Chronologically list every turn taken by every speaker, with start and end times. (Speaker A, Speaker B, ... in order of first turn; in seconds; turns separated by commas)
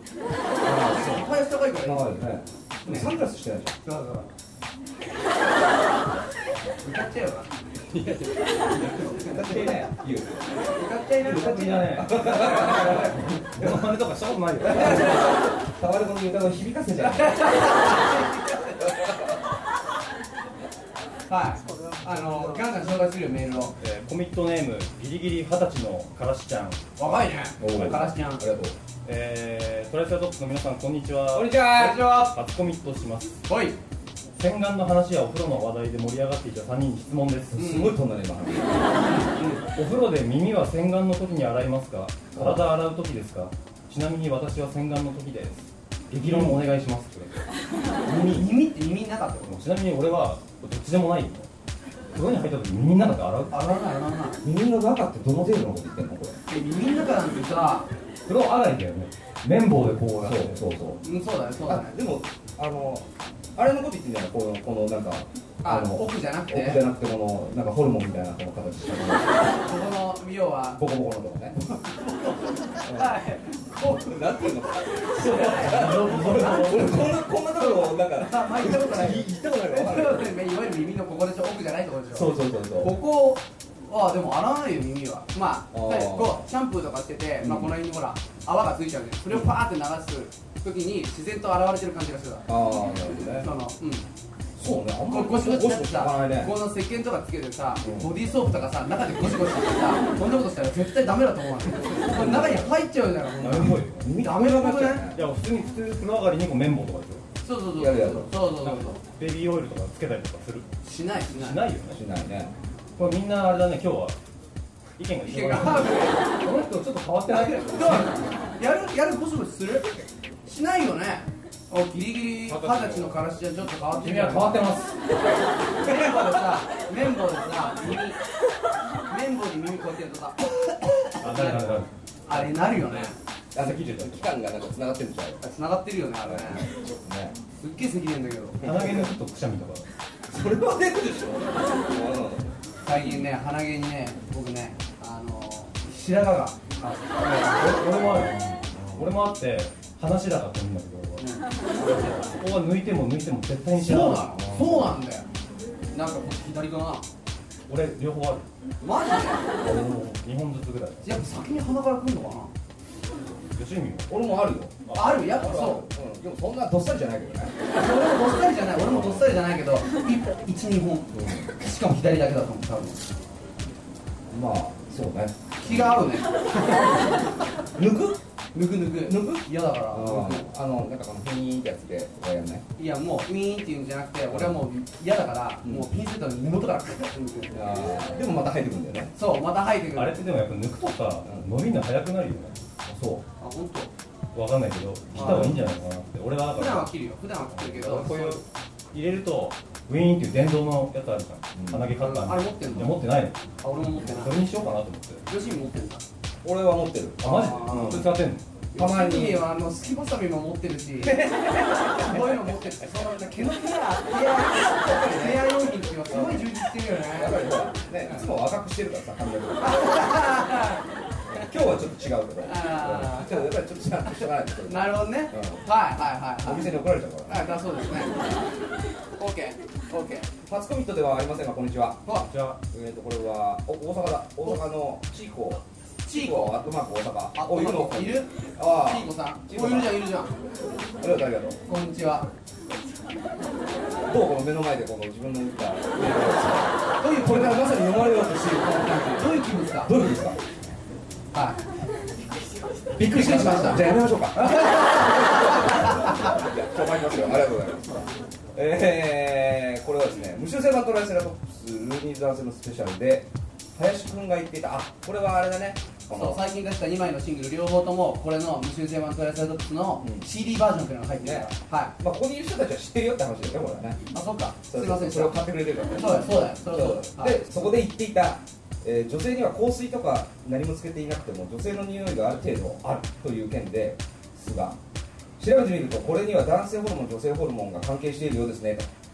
Speaker A: 0.6-1.2, Speaker B: 0.6-2.3, Speaker A: 1.8-3.8, Speaker B: 2.8-3.1, Speaker B: 3.8-4.3, Speaker B: 6.8-7.6, Speaker C: 7.9-8.4, Speaker B: 8.8-9.4, Speaker A: 9.2-10.6, Speaker B: 10.7-13.2, Speaker C: 11.2-15.3, Speaker A: 11.2-13.9, Speaker B: 14.6-15.4, Speaker A: 14.7-17.7, Speaker B: 17.0-18.9, Speaker A: 18.8-19.2, Speaker B: 21.3-23.8, Speaker C: 23.8-26.8, Speaker B: 27.0-28.4, Speaker A: 27.6-28.8, Speaker C: 29.1-33.4, Speaker A: 31.3-32.1, Speaker B: 31.8-32.4, Speaker B: 33.5-33.8, Speaker C: 34.4-37.6, Speaker A: 37.5-38.9, Speaker B: 37.6-37.9, Speaker B: 39.2-39.6, Speaker C: 39.7-47.4, Speaker A: 42.3-42.7, Speaker A: 46.2-46.6, Speaker B: 48.2-49.6, Speaker C: 49.4-51.5, Speaker C: 52.1-53.6, Speaker B: 53.5-54.4, Speaker A: 54.4-56.4, Speaker B: 56.5-57.9, Speaker C: 58.2-60.6, Speaker A: 60.2-61.0, Speaker B: 61.0-62.0, Speaker A: 61.6-63.0, Speaker A: 63.6-69.4, Speaker B: 65.6-66.8, Speaker B: 69.6-70.8, Speaker A: 70.8-71.5, Speaker B: 71.5-92.5, Speaker A: 72.8-73.1, Speaker A: 74.0-80.3, Speaker C: 75.2-77.1, Speaker A: 82.1-82.9, Speaker A: 85.7-86.4, Speaker A: 87.4-87.7, Speaker A: 92.5-93.5, Speaker B: 93.4-94.1, Speaker A: 94.6-96.5, Speaker B: 95.1-105.1, Speaker A: 97.8-98.1, Speaker A: 102.0-102.7, Speaker C: 103.4-104.1, Speaker A: 104.0-105.2, Speaker C: 105.1-107.2, Speaker B: 107.4-109.0, Speaker A: 107.8-108.3, Speaker C: 108.6-110.7, Speaker B: 110.8-111.6, Speaker C: 111.3-112.0, Speaker A: 111.9-112.5, Speaker C: 113.0-114.2, Speaker C: 115.0-118.2, Speaker B: 115.2-116.2, Speaker B: 117.3-124.7, Speaker C: 122.5-123.2, Speaker C: 124.0-125.0, Speaker B: 125.8-128.2, Speaker B: 129.1-133.2, Speaker C: 131.2-134.2, Speaker A: 133.5-135.4, Speaker B: 135.4-136.7, Speaker A: 136.2-137.4, Speaker B: 137.6-139.0, Speaker A: 138.6-138.9, Speaker C: 138.6-139.8, Speaker A: 140.3-142.5, Speaker B: 142.8-147.7, Speaker C: 147.4-151.2, Speaker A: 148.2-149.1, Speaker B: 151.2-151.5, Speaker C: 151.8-154.8, Speaker B: 153.8-155.2, Speaker B: 155.9-157.1, Speaker C: 157.7-158.5, Speaker B: 158.8-159.5, Speaker A: 159.6-160.1, Speaker C: 159.6-161.1, Speaker B: 161.0-162.5, Speaker C: 163.5-164.2, Speaker A: 164.1-167.6, Speaker C: 164.8-165.4, Speaker B: 164.9-165.8, Speaker B: 167.7-173.0, Speaker A: 168.7-169.3, Speaker A: 171.1-171.4, Speaker A: 174.3-175.9, Speaker B: 175.6-177.1, Speaker A: 177.8-178.2, Speaker B: 178.5-180.4, Speaker A: 179.1-182.7, Speaker B: 182.8-187.8, Speaker A: 184.3-184.6, Speaker A: 187.5-189.1, Speaker B: 189.2-190.2, Speaker C: 189.9-192.6, Speaker A: 192.8-193.2, Speaker B: 193.4-193.9, Speaker C: 194.3-196.9, Speaker B: 195.1-195.6, Speaker A: 195.1-195.6, Speaker B: 196.5-198.4, Speaker C: 197.5-203.4, Speaker A: 201.6-201.9, Speaker B: 202.0-203.0, Speaker B: 203.6-204.3, Speaker C: 204.0-205.2, Speaker B: 205.3-206.0, Speaker A: 206.4-208.1, Speaker C: 207.2-208.4, Speaker B: 207.2-208.1, Speaker B: 208.7-211.2, Speaker A: 208.7-209.4, Speaker A: 211.0-212.3, Speaker B: 211.9-217.4, Speaker A: 214.8-215.4, Speaker A: 216.1-216.4, Speaker A: 217.1-220.0, Speaker B: 219.6-221.4, Speaker A: 221.3-225.7, Speaker B: 222.4-223.5, Speaker B: 224.1-228.3, Speaker A: 226.4-227.5, Speaker B: 229.2-230.3, Speaker A: 230.4-240.0, Speaker B: 236.0-236.6, Speaker B: 237.3-240.4, Speaker A: 241.0-241.6, Speaker B: 241.7-242.3, Speaker A: 244.1-250.4, Speaker B: 247.0-247.7, Speaker B: 248.8-250.0, Speaker B: 251.3-251.6, Speaker A: 252.9-266.4, Speaker B: 253.0-256.3, Speaker B: 266.1-271.9, Speaker A: 270.0-270.3, Speaker A: 271.2-274.0, Speaker B: 274.1-275.4, Speaker A: 274.7-284.8, Speaker B: 275.9-277.5, Speaker A: 285.4-288.9